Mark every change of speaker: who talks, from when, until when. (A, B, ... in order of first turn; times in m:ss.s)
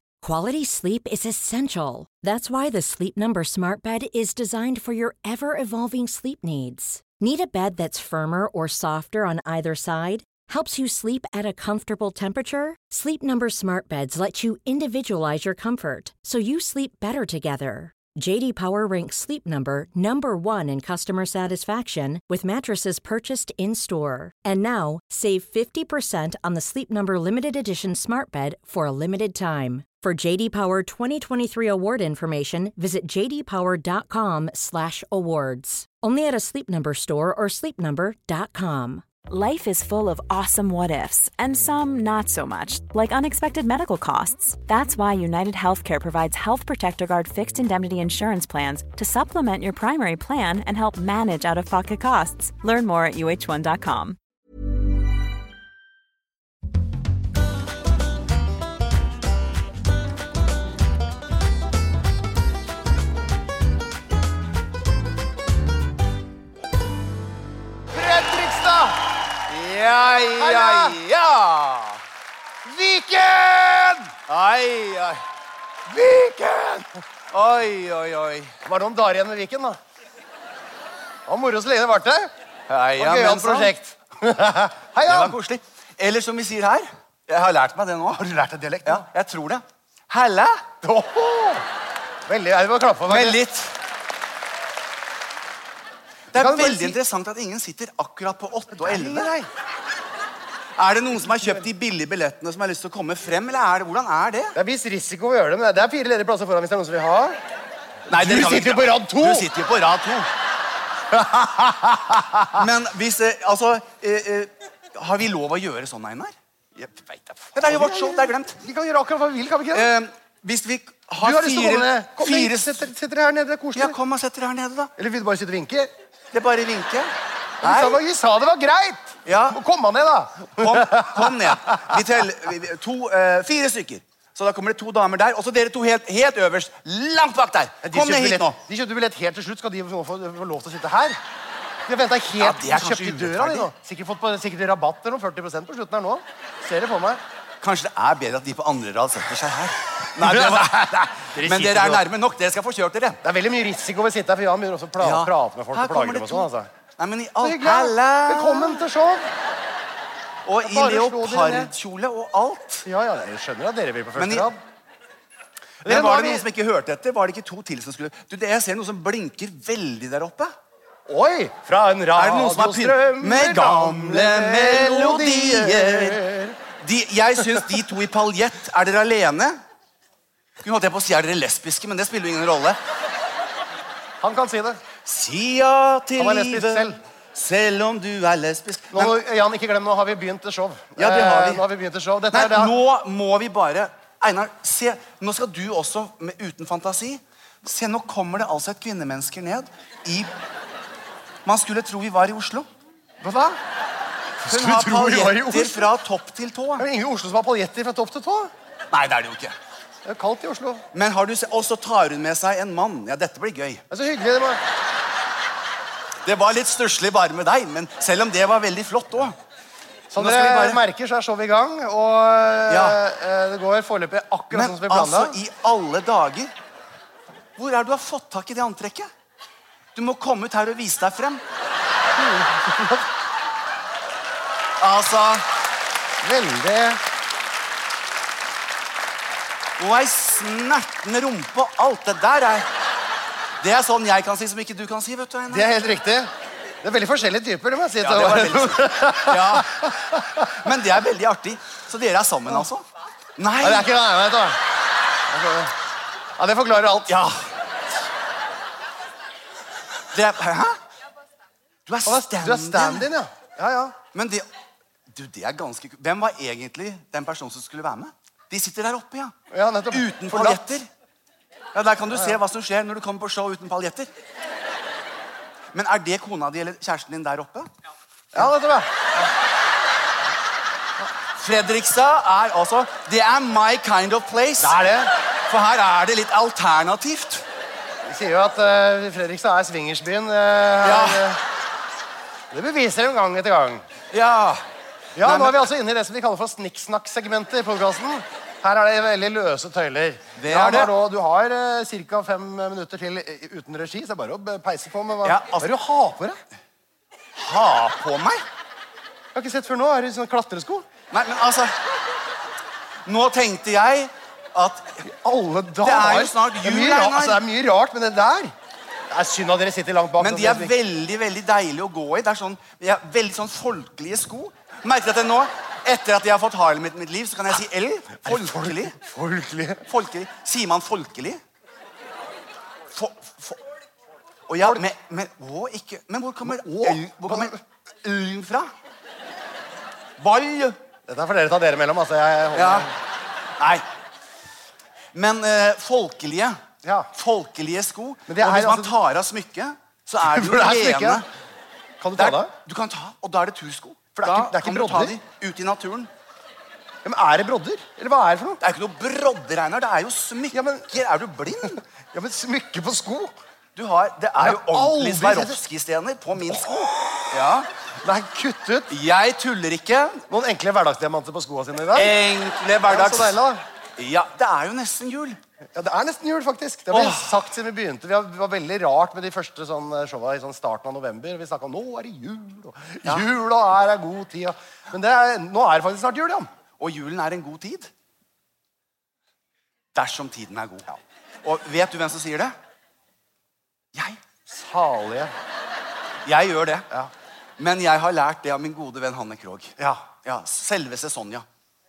0:00.2-0:39.1 A
0:39.3-0:54.2 B
1:07.9-1:09.1 C
1:09.5-1:12.0 D
1:10.4-1:11.0 C
1:12.6-1:14.2 C
1:14.3-1:15.2 D
1:15.9-1:17.0 C
1:17.3-1:18.6 D
1:18.6-1:19.8 C
1:21.3-1:22.3 C
1:22.7-1:23.7 D
1:23.0-1:25.4 C
1:25.0-1:28.2 D
1:28.2-1:29.1 C
1:28.8-1:30.6 D
1:30.8-1:31.6 C
1:32.3-1:33.4 C
1:33.1-1:33.7 D
1:36.3-1:39.3 D
1:36.3-1:37.0 C
1:38.8-1:39.5 C
1:40.8-1:44.6 D
1:44.6-1:47.4 C
1:48.1-1:50.3 D
1:48.1-1:49.5 C
1:51.1-1:52.5 C
1:52.5-1:56.3 D
1:56.8-1:59.9 C
1:57.5-1:58.6 D
1:59.7-2:02.8 D
2:01.2-2:04.0 C
2:03.8-2:04.9 D
2:05.0-2:05.9 C
2:06.3-2:08.0 D
2:07.6-2:12.0 C
2:09.3-2:09.6 D
2:10.6-2:18.6 D
2:17.8-2:21.2 C
2:21.9-2:27.2 C
2:22.4-2:23.7 D
2:27.6-2:33.2 D
2:30.2-2:32.0 C
2:33.2-2:36.7 C
2:35.0-2:38.8 D
2:37.4-2:39.3 C
2:40.5-2:42.9 D
2:40.6-2:41.7 C
2:42.9-2:44.6 C
2:44.2-2:44.5 D
2:45.8-2:46.5 C
2:45.8-2:50.5 D
2:51.1-2:56.6 C
2:52.2-2:56.2 D
2:56.8-2:59.6 D
3:00.6-3:02.8 D
3:04.2-3:04.8 C
3:05.0-3:09.2 D
3:06.2-3:07.0 C
3:08.9-3:12.8 C
3:11.0-3:11.6 D
3:12.3-3:20.3 D
3:21.4-3:22.7 D
3:23.2-3:23.6 C
3:24.4-3:25.9 C
3:24.5-3:26.8 D
3:26.8-3:28.5 C
3:28.9-3:29.5 D
3:30.0-3:30.8 C
3:30.9-3:33.8 D
3:33.9-3:34.6 C
3:36.2-3:39.4 D
3:40.1-3:45.4 C
3:40.1-3:40.8 D
3:42.7-3:43.0 D
3:44.5-3:46.5 D
3:47.6-3:49.1 D
3:50.0-3:51.4 D
3:52.2-3:53.0 C
3:54.8-3:55.4 D
3:56.2-3:57.0 C
3:59.8-4:02.7 D
4:03.6-4:05.7 D
4:05.5-4:06.3 C
4:06.8-4:10.5 C
4:08.0-4:09.9 D
4:10.5-4:12.8 D
4:13.4-4:13.9 D
4:13.6-4:14.6 C
4:15.3-4:15.7 C
4:16.4-4:17.2 C
4:17.1-4:17.4 D
4:20.1-4:20.8 D
4:21.9-4:23.1 D
4:22.0-4:24.0 C
4:24.1-4:24.4 D
4:25.1-4:29.4 D
4:29.5-4:30.6 C
4:29.9-4:30.9 D
4:31.7-4:34.1 D
4:32.1-4:32.4 C
4:35.7-4:37.7 D
4:38.3-4:39.3 C
4:41.4-4:44.8 D
4:44.6-4:45.1 C
4:45.5-4:47.4 D
4:48.0-4:51.4 C
4:50.8-4:51.4 D
4:52.5-4:53.8 C
4:54.1-4:54.6 D
4:55.2-5:06.4 C
4:55.2-4:55.7 D
5:00.4-5:00.9 D
5:05.2-5:05.7 D
5:07.4-5:08.4 D
5:09.4-5:10.9 C
5:11.1-5:11.8 D
5:13.1-5:15.0 D
5:15.0-5:18.5 C
5:15.8-5:17.4 D
5:19.1-5:20.7 C
5:20.2-5:29.0 D
5:28.2-5:29.8 C
5:29.9-5:31.4 D
5:32.9-5:33.6 D
5:34.5-5:38.7 D
5:36.4-5:37.6 C
5:40.2-5:40.8 D
5:41.1-5:42.9 C
5:42.6-5:42.9 D
5:43.6-5:43.8 D
5:45.1-5:46.6 D
5:46.8-5:47.1 C
5:47.2-5:51.3 D
5:48.3-5:48.9 C
5:50.2-5:51.2 C
5:52.0-5:52.5 C
5:52.2-5:56.1 D
5:54.2-5:55.2 C
5:57.0-5:58.6 C
5:58.6-6:01.8 D
6:00.5-6:01.0 C
6:02.1-6:03.4 C
6:03.8-6:07.7 D
6:04.4-6:05.6 C
6:06.4-6:07.2 C
6:08.0-6:08.9 C
6:08.9-6:10.2 D
6:10.3-6:12.2 C
6:11.9-6:13.4 D
6:12.9-6:13.6 C
6:14.0-6:15.4 D
6:15.7-6:26.5 C
6:16.9-6:17.4 D
6:26.8-6:27.9 D
6:30.0-6:32.6 D
6:34.5-6:35.3 C
6:36.2-6:36.9 D
6:37.6-6:41.4 D
6:39.8-6:40.1 C